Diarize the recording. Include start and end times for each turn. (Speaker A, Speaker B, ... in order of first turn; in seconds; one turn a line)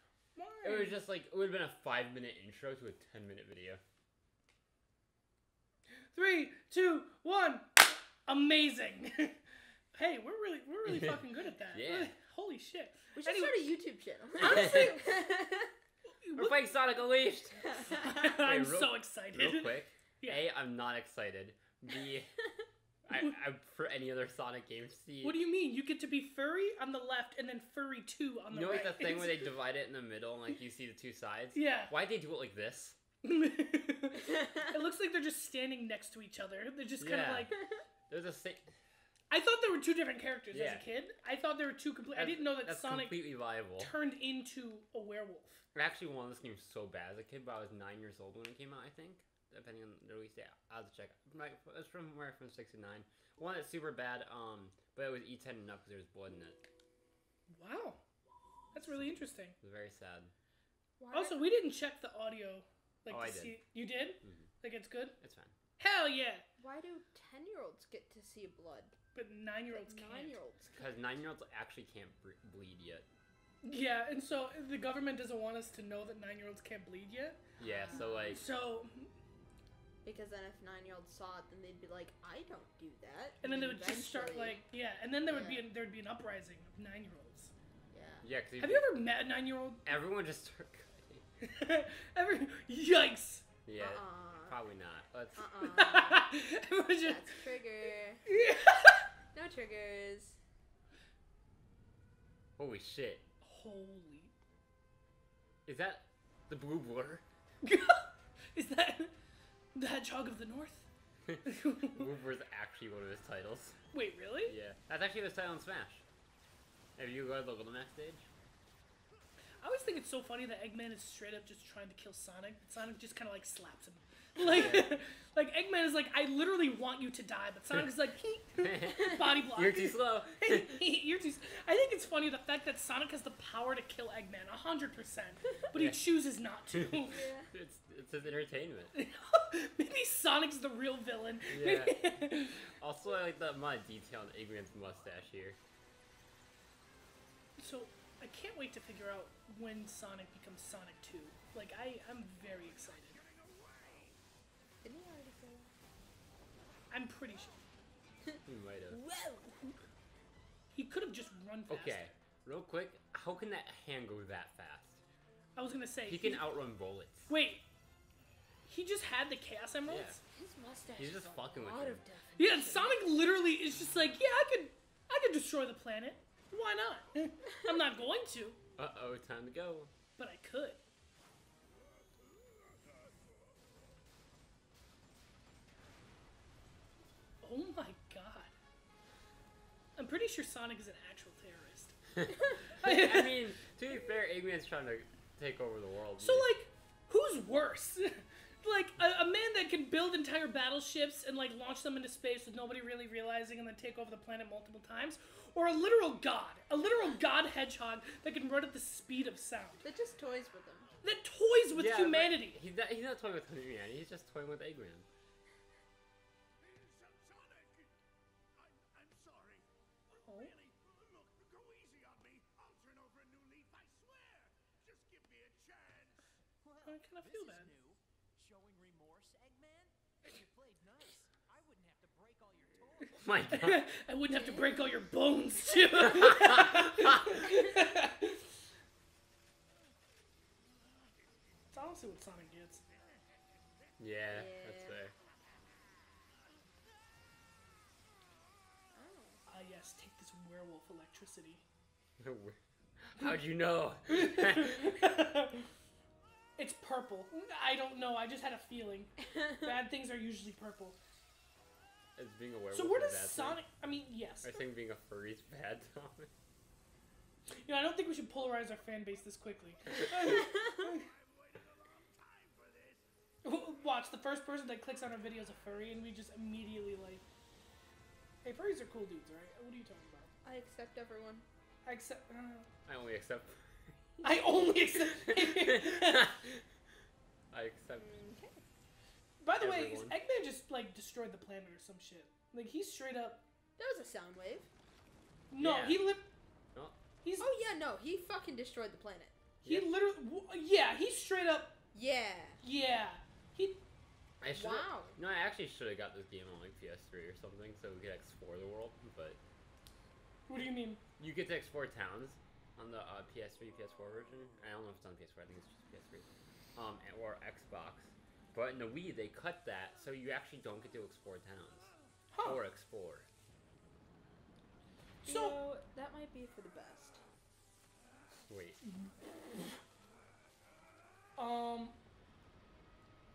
Speaker A: 0.4-1.0
Speaker B: 0.6-3.8
Speaker A: 6.1-9.4
Speaker A: 9.9-13.8
Speaker B: 10.9-12.2
Speaker C: 13.2-15.7
Speaker A: 14.4-15.2
Speaker B: 14.5-14.9
Speaker A: 16.2-16.6
Speaker B: 16.4-22.3
Speaker C: 17.7-18.0
Speaker A: 17.9-20.4
Speaker B: 23.1-25.4
Speaker A: 25.2-29.5
Speaker B: 28.5-33.0
Speaker A: 31.5-31.9
Speaker A: 33.2-37.6
Speaker B: 37.0-37.6
Speaker B: 38.1-38.7
Speaker A: 39.3-45.6
Speaker B: 40.5-40.9
Speaker B: 42.1-44.0
Speaker B: 45.8-56.6
Speaker A: 57.5-58.0
Speaker A: 58.7-59.6
Speaker B: 58.9-60.3
Speaker C: 61.0-61.5
Speaker A: 61.1-65.2
Speaker B: 63.1-63.6
Speaker B: 65.2-65.5
Speaker A: 65.8-66.5
Speaker C: 66.6-69.0
Speaker A: 69.2-70.4
Speaker C: 69.7-71.0
Speaker B: 70.7-73.1
Speaker A: 73.6-77.4
Speaker B: 77.6-78.4
Speaker C: 77.6-78.4
Speaker A: 78.0-79.1
Speaker C: 80.0-84.6
Speaker A: 83.4-87.5
Speaker C: 85.2-85.7
Speaker C: 87.9-88.2
Speaker B: 88.2-88.9
Speaker A: 88.6-89.8
Speaker B: 89.8-91.2
Speaker A: 91.4-93.5
Speaker B: 93.7-95.5
Speaker C: 93.8-94.6
Speaker C: 95.3-96.3
Speaker A: 95.6-97.4
Speaker C: 97.0-100.4
Speaker A: 98.3-99.1
Speaker B: 102.6-103.2
Speaker A: 103.4-104.3
Speaker B: 105.7-107.2
Speaker A: 107.6-109.1
Speaker A: 109.8-110.9
Speaker B: 111.3-113.8
Speaker A: 111.4-112.1
Speaker A: 113.9-114.6
Speaker B: 114.5-116.0
Speaker B: 117.0-118.3
Speaker A: 119.6-137.3
Speaker B: 124.4-125.0
Speaker B: 128.6-130.8
Speaker B: 135.7-136.0
Speaker C: 137.1-137.5
Speaker B: 137.5-138.9
Speaker A: 138.9-142.7
Speaker B: 141.5-145.6
Speaker A: 147.6-153.2
Speaker C: 154.8-155.8
Speaker A: 156.9-157.6
Speaker B: 158.5-159.0
Speaker C: 158.9-159.7
Speaker A: 160.7-162.1
Speaker B: 161.7-165.0
Speaker A: 165.6-166.5
Speaker B: 166.1-167.3
Speaker A: 167.3-167.7
Speaker A: 168.7-170.2
Speaker B: 169.9-170.2
Speaker C: 170.3-173.0
Speaker B: 171.0-172.0
Speaker A: 172.4-178.6
Speaker B: 178.8-179.9
Speaker A: 180.2-180.8
Speaker A: 187.4-188.5
Speaker A: 190.0-192.0
Speaker B: 192.3-196.5
Speaker A: 192.6-193.4
Speaker A: 196.2-209.8
Speaker C: 209.8-210.9
Speaker A: 211.0-212.6
Speaker B: 211.7-215.1
Speaker D: 219.1-219.6
Speaker A: 220.2-220.6
Speaker D: 221.3-225.6
Speaker D: 226.7-233.2
Speaker A: 226.9-227.7
Speaker B: 233.2-233.9
Speaker A: 233.5-238.4
Speaker C: 234.3-234.7
Speaker A: 241.7-242.8
Speaker B: 244.0-245.1
Speaker C: 244.3-245.0
Speaker C: 248.9-249.4
Speaker A: 249.5-251.6
Speaker B: 252.2-255.0
Speaker A: 254.1-255.7
Speaker A: 256.6-261.0
Speaker C: 259.4-259.8
Speaker B: 262.2-263.6
Speaker A: 262.7-264.6
Speaker B: 264.4-266.3
Speaker A: 267.6-271.1
Speaker C: 270.3-270.6
Speaker D: 272.2-272.7
Speaker A: 273.4-277.2
Speaker A: 278.4-280.3
Speaker C: 280.4-281.4
Speaker A: 281.9-282.7
Speaker B: 282.9-284.0
Speaker A: 284.2-286.4
Speaker B: 285.1-286.6
Speaker B: 287.5-288.1
Speaker C: 287.9-288.6
Speaker A: 289.4-293.4
Speaker B: 289.6-290.2
Speaker C: 293.8-294.7
Speaker A: 295.5-296.3
Speaker B: 295.6-296.1
Speaker A: 297.2-297.5
Speaker C: 297.4-299.4
Speaker B: 299.6-299.9
Speaker A: 299.6-301.8
Speaker C: 301.9-302.6
Speaker A: 302.6-303.8
Speaker B: 304.4-309.4
Speaker C: 304.5-305.1
Speaker A: 310.5-311.0
Speaker B: 311.2-321.9
Speaker A: 322.3-322.6
Speaker B: 322.4-323.3
Speaker A: 325.2-325.6
Speaker C: 325.2-327.2
Speaker B: 328.5-328.8
Speaker A: 331.4-332.0